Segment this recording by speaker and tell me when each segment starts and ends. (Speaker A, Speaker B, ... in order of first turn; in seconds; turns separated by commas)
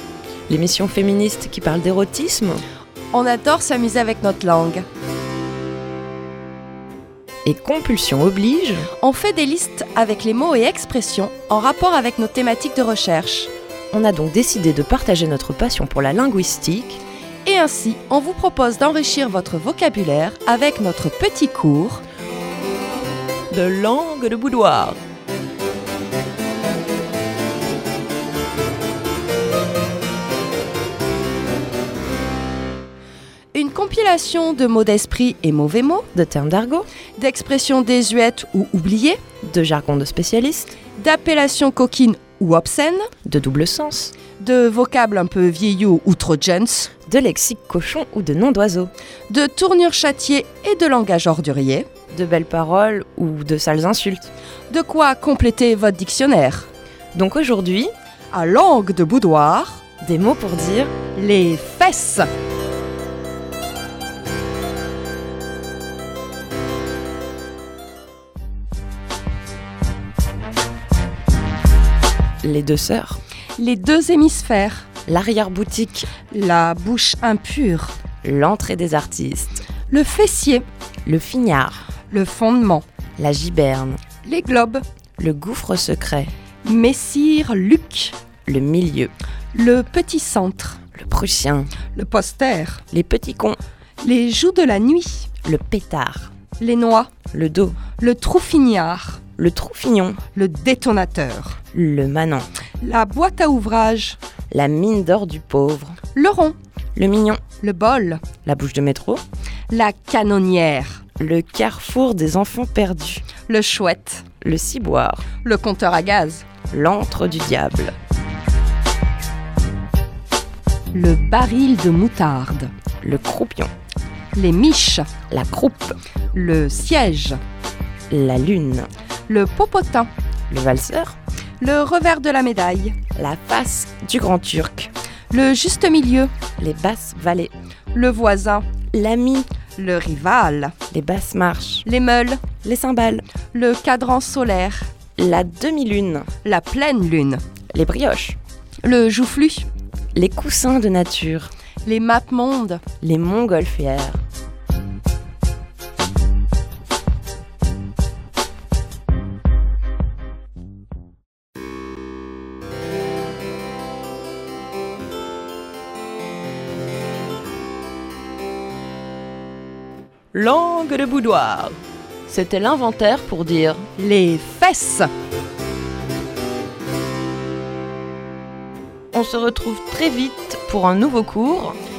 Speaker A: 0.5-2.6, Speaker B: 3.1-4.8, Speaker A: 7.4-8.9, Speaker B: 9.0-13.5, Speaker A: 13.9-17.0, Speaker B: 17.4-22.0, Speaker A: 23.5-25.0, Speaker B: 33.5-36.1, Speaker A: 36.1-36.9, Speaker B: 37.2-39.2, Speaker A: 39.4-40.7, Speaker B: 40.9-43.1, Speaker A: 43.2-44.1, Speaker B: 44.4-46.9, Speaker A: 47.1-48.9, Speaker B: 49.3-51.9, Speaker A: 52.1-54.3, Speaker B: 54.7-56.7, Speaker A: 57.1-57.9, Speaker B: 58.3-59.8, Speaker A: 60.0-60.9, Speaker B: 61.1-62.3, Speaker A: 72.4-73.2, Speaker B: 73.6-74.9, Speaker A: 75.1-76.1, Speaker B: 76.3-78.0, Speaker A: 78.2-79.6, Speaker B: 79.9-80.6, Speaker A: 81.0-81.8, Speaker B: 82.1-82.8, Speaker A: 83.2-84.0, Speaker B: 84.2-84.8, Speaker A: 85.2-86.3, Speaker B: 86.6-88.2, Speaker A: 88.5-89.1, Speaker B: 89.5-90.8, Speaker A: 90.9-91.7, Speaker B: 91.9-92.8, Speaker A: 92.9-93.6, Speaker B: 94.0-95.3, Speaker A: 95.4-96.3, Speaker B: 96.6-97.1, Speaker A: 97.3-97.8, Speaker B: 98.0-99.2, Speaker A: 99.4-100.2, Speaker B: 100.3-101.6, Speaker A: 101.7-102.5, Speaker B: 102.8-104.2, Speaker A: 104.5-106.0, Speaker B: 106.1-106.5, Speaker A: 106.9-107.4, Speaker B: 107.6-108.2, Speaker A: 108.4-109.2, Speaker B: 109.7-111.0, Speaker A: 111.2-113.2, Speaker B: 113.4-114.2, Speaker A: 114.4-115.2, Speaker B: 115.4-116.5, Speaker A: 116.7-117.9, Speaker B: 120.9-122.7, Speaker A: 123.0-123.7, Speaker B: 124.3-125.1, Speaker A: 125.3-126.0, Speaker B: 126.3-127.4, Speaker A: 128.1-128.9, Speaker B: 129.3-130.1, Speaker A: 130.5-131.2, Speaker B: 131.6-132.9, Speaker A: 133.2-134.9, Speaker B: 135.3-136.3, Speaker A: 136.6-137.5, Speaker B: 137.9-138.7, Speaker A: 138.9-139.5, Speaker B: 139.8-140.7, Speaker A: 140.9-141.8, Speaker B: 141.8-142.4, Speaker A: 142.6-143.2, Speaker B: 143.5-144.9, Speaker A: 145.2-146.3, Speaker B: 146.4-147.4, Speaker A: 147.7-148.4, Speaker B: 148.8-149.7, Speaker A: 150.1-151.5, Speaker B: 151.8-152.8, Speaker A: 153.0-154.2, Speaker A: 170.3-173.9, Speaker B: 174.0-175.1, Speaker A: 179.1-181.8